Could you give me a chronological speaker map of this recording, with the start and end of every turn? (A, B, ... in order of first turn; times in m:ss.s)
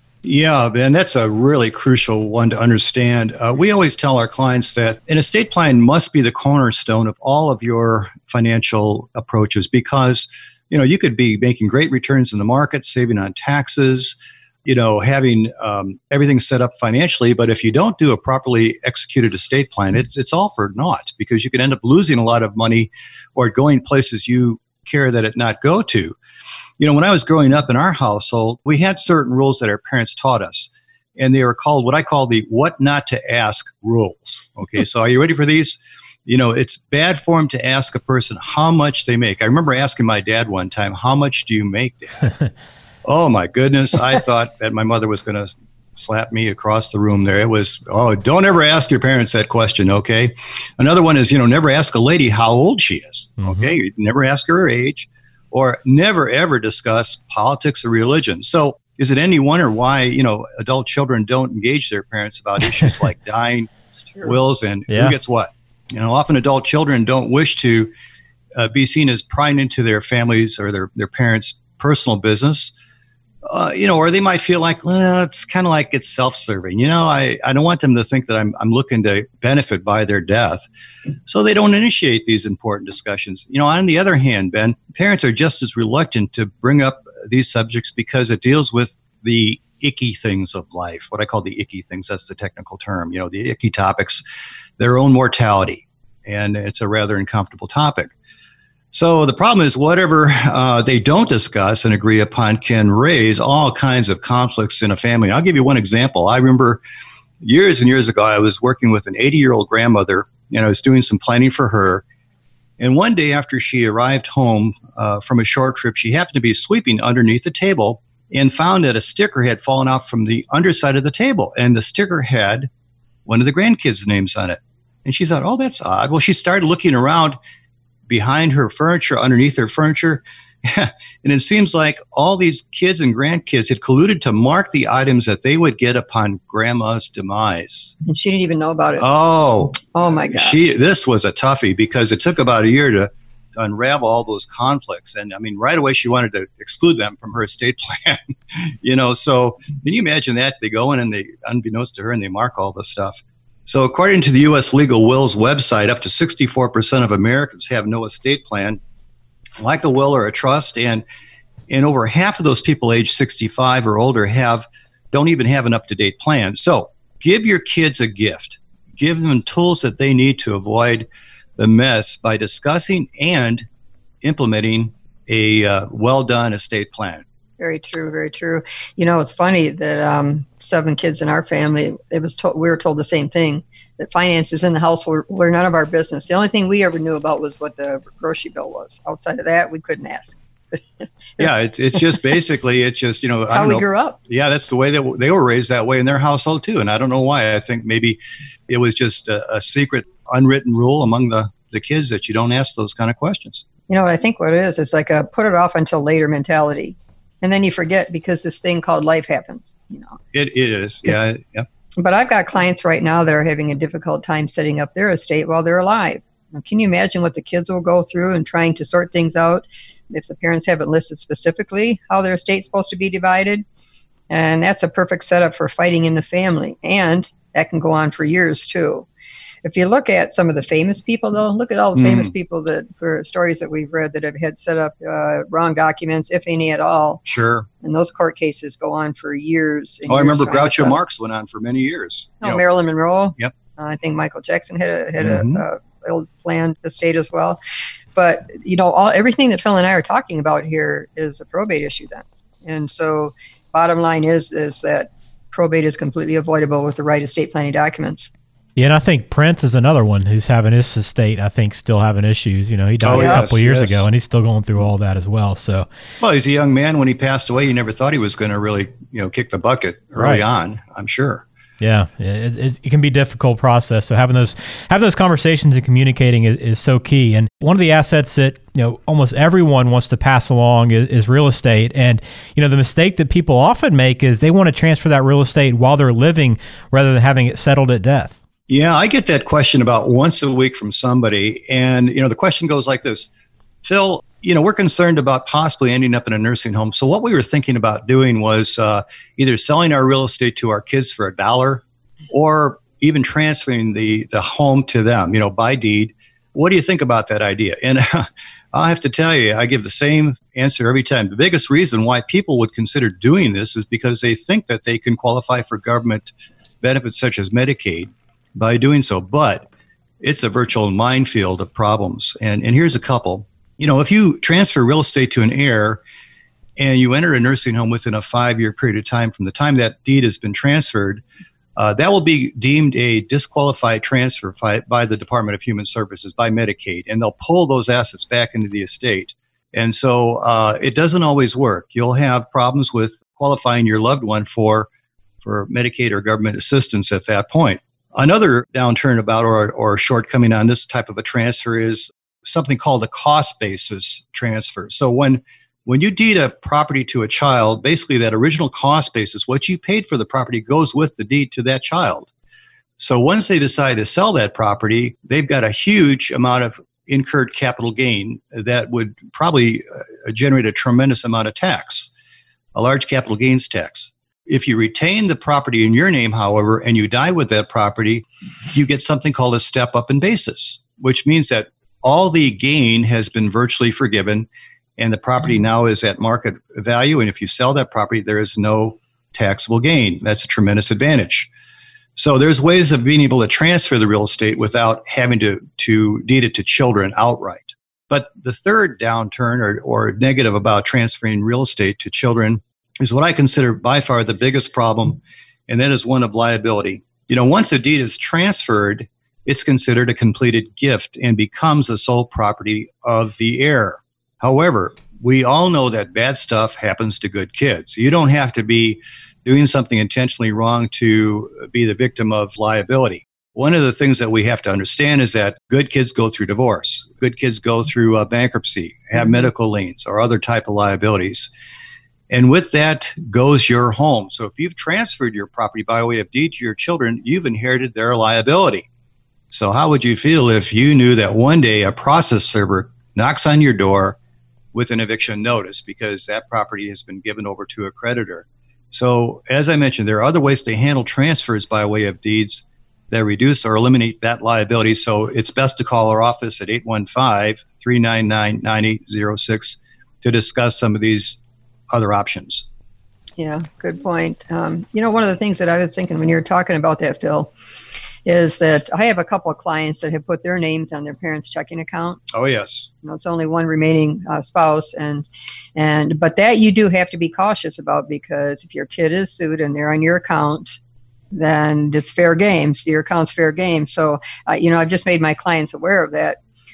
0:00.2-0:26.2 A
0:26.8-0:42.3 A
0:43.0-1:03.7 A
1:04.2-1:07.9 A
1:04.9-1:05.2 B
1:08.6-1:12.7 A
1:13.4-1:20.7 A
1:21.3-1:34.2 A
1:34.8-1:38.1 A
1:38.9-1:46.8 A
1:47.4-1:52.0 A
1:52.8-2:02.7 A
2:03.3-2:07.4 A
2:08.1-2:17.9 A
2:18.0-2:19.1 C
2:19.0-2:38.8 A
2:19.9-2:20.6 C
2:39.6-2:41.0 A
2:41.7-2:53.6 A
2:54.2-2:57.2 A
2:57.6-3:10.8 C
3:11.4-3:23.6 A
3:13.5-3:14.2 C
3:23.9-3:30.2 C
3:30.3-3:31.7 A
3:32.0-3:43.6 C
3:44.3-3:49.1 C
3:49.6-3:57.2 C
3:52.0-3:52.3 A
3:57.2-3:57.7 A
3:57.8-4:01.0 C
4:00.1-4:02.6 A
4:02.4-4:07.6 C
4:05.2-4:05.6 A
4:08.2-4:18.3 C
4:18.8-4:25.8 B
4:23.0-4:24.1 A
4:23.1-4:23.4 C
4:26.2-4:31.4 A
4:30.2-4:30.4 B
4:31.8-4:48.3 B
4:48.7-4:53.3 A
4:53.8-5:19.7 A
5:20.2-5:26.0 A
5:26.8-5:31.2 A
5:31.8-5:44.9 A
5:45.4-6:02.3 A
6:03.0-6:12.1 A
6:12.7-6:31.5 A
6:32.2-7:11.5 A
7:12.3-7:18.9 A
7:19.5-7:24.2 A
7:24.7-7:42.7 A
7:43.4-7:47.5 C
7:48.2-7:52.2 C
7:52.3-7:52.9 A
7:53.0-8:00.8 C
8:01.3-8:06.4 C